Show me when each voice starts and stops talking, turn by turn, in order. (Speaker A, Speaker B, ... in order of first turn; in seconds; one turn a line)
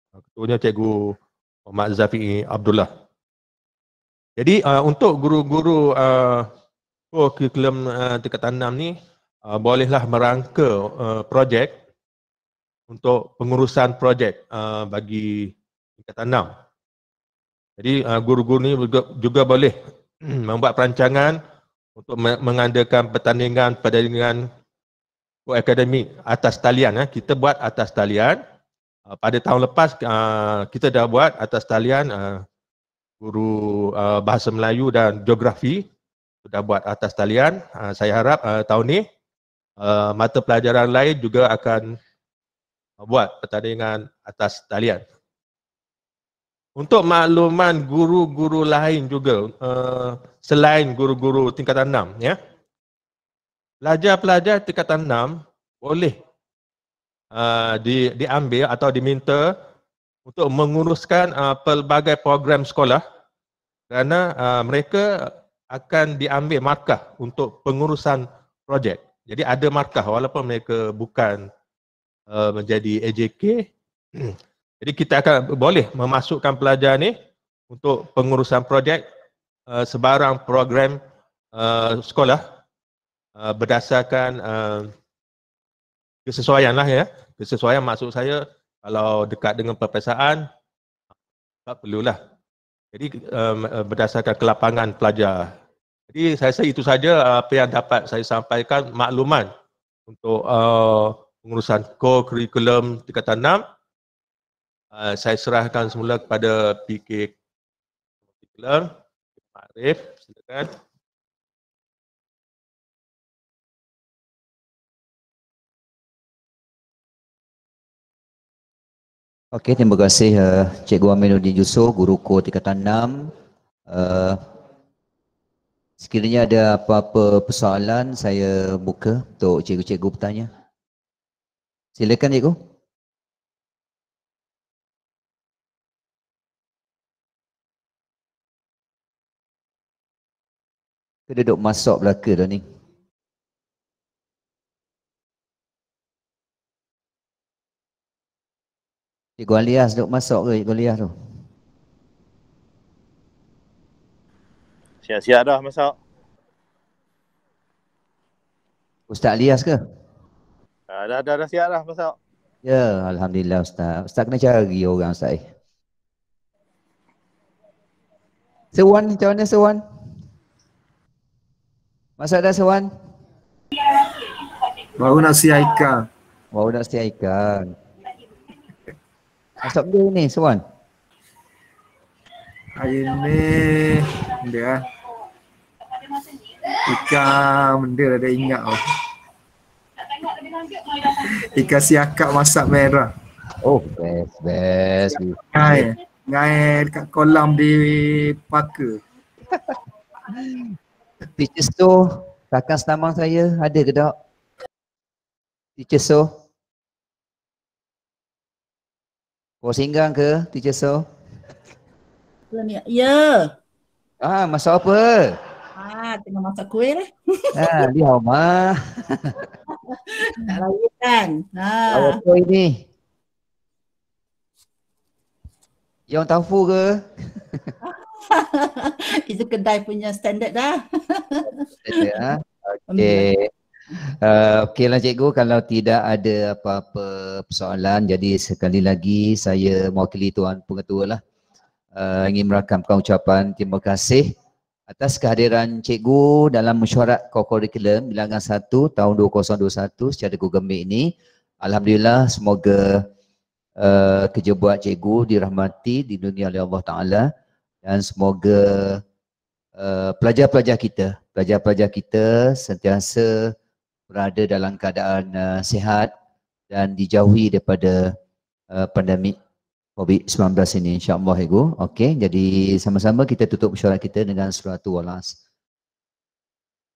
Speaker A: 0.3-1.1
Speaker A: 1.7-2.9
Speaker A: 4.4-6.5
Speaker A: 7.1-8.9
Speaker A: 9.5-11.8
Speaker A: 12.9-16.5
Speaker A: 17.8-21.4
Speaker A: 22.0-24.4
Speaker A: 25.5-28.4
Speaker A: 29.1-32.4
Speaker A: 33.2-35.9
Speaker A: 36.5-39.0
Speaker A: 39.8-41.9
Speaker A: 43.0-45.0
Speaker A: 46.8-52.4
Speaker A: 53.8-56.1
Speaker A: 57.3-59.5
Speaker A: 60.3-63.0
Speaker A: 63.9-71.5
Speaker A: 72.3-73.7
Speaker A: 74.2-77.1
Speaker A: 77.7-79.0
Speaker A: 79.7-81.0
Speaker A: 81.5-82.4
Speaker A: 83.4-84.9
Speaker A: 86.3-90.4
Speaker A: 91.7-92.2
Speaker A: 92.9-95.5
Speaker A: 96.1-99.5
Speaker A: 100.1-103.6
Speaker A: 104.9-107.3
Speaker A: 108.5-108.9
Speaker A: 109.6-110.7
Speaker B: 119.5-123.3
Speaker B: 123.9-124.4
Speaker B: 126.0-130.5
Speaker B: 131.9-132.6
Speaker B: 141.3-142.6
Speaker B: 149.4-151.1
Speaker C: 155.0-155.9
Speaker B: 159.1-159.8
Speaker C: 160.9-162.2
Speaker B: 162.6-165.4
Speaker B: 168.7-169.8
Speaker B: 172.2-172.9
Speaker D: 175.0-176.0
Speaker B: 176.5-177.7
Speaker B: 179.6-180.6
Speaker D: 182.8-184.8
Speaker D: 186.7-188.8
Speaker D: 191.1-193.1
Speaker B: 193.6-195.9
Speaker D: 195.5-199.0
Speaker B: 201.3-204.1
Speaker B: 205.8-206.3
Speaker B: 209.6-211.1
Speaker E: 212.5-213.5
Speaker B: 214.2-215.4
Speaker E: 215.8-217.9
Speaker B: 217.6-219.4
Speaker E: 220.1-222.2
Speaker B: 221.9-222.8
Speaker B: 226.1-227.7
Speaker E: 227.9-232.2
Speaker B: 231.8-232.4
Speaker E: 232.9-233.3
Speaker B: 232.9-233.5
Speaker B: 234.1-241.2
Speaker B: 241.9-244.3
Speaker B: 244.9-253.1
Speaker B: 253.8-257.3
Speaker B: 257.9-259.0
Speaker B: 259.8-263.5
Speaker B: 264.1-266.1
Speaker B: 266.7-268.2
Speaker B: 268.7-269.4
Speaker B: 270.0-275.4